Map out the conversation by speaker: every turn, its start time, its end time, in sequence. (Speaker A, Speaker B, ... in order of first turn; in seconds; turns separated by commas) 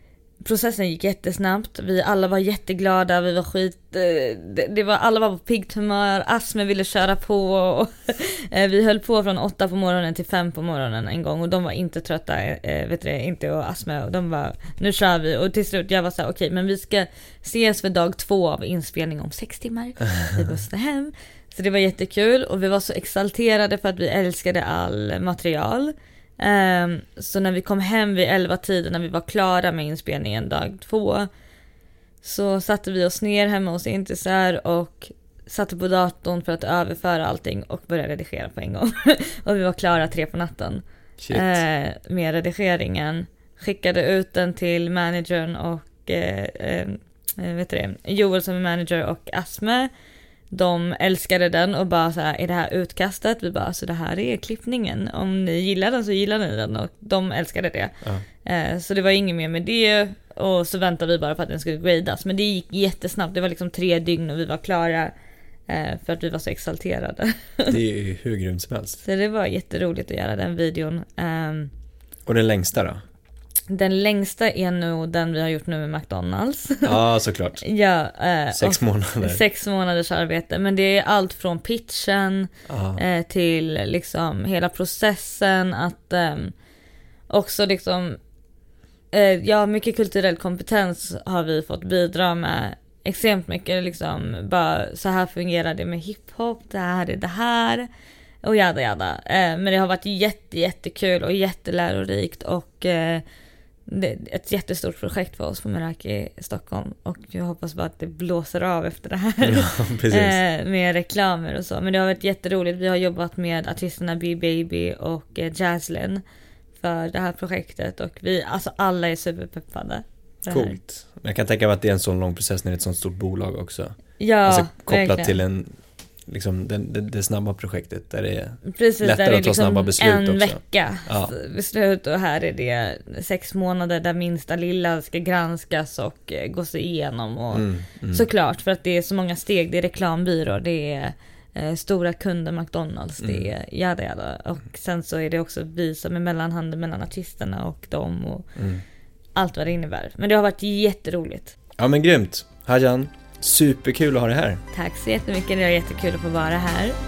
Speaker A: 0.4-31.3, Speaker A: 32.2-49.9, Speaker B: 41.2-41.6, Speaker A: 50.5-65.1, Speaker A: 65.7-67.8, Speaker B: 67.7-69.0, Speaker A: 69.0-71.7, Speaker B: 72.2-73.0, Speaker A: 73.7-77.0, Speaker B: 76.8-77.6, Speaker A: 77.6-86.5, Speaker B: 78.5-79.4, Speaker B: 82.7-83.0, Speaker A: 87.3-88.2, Speaker A: 89.1-97.9, Speaker A: 98.4-103.2, Speaker A: 103.9-116.2, Speaker B: 109.4-110.4, Speaker A: 116.8-120.8, Speaker B: 120.5-131.3, Speaker A: 124.2-125.4, Speaker A: 128.6-148.5, Speaker B: 137.5-138.3, Speaker B: 143.2-143.5, Speaker B: 148.6-148.8, Speaker A: 149.3-151.5, Speaker B: 151.8-154.6, Speaker A: 154.7-156.9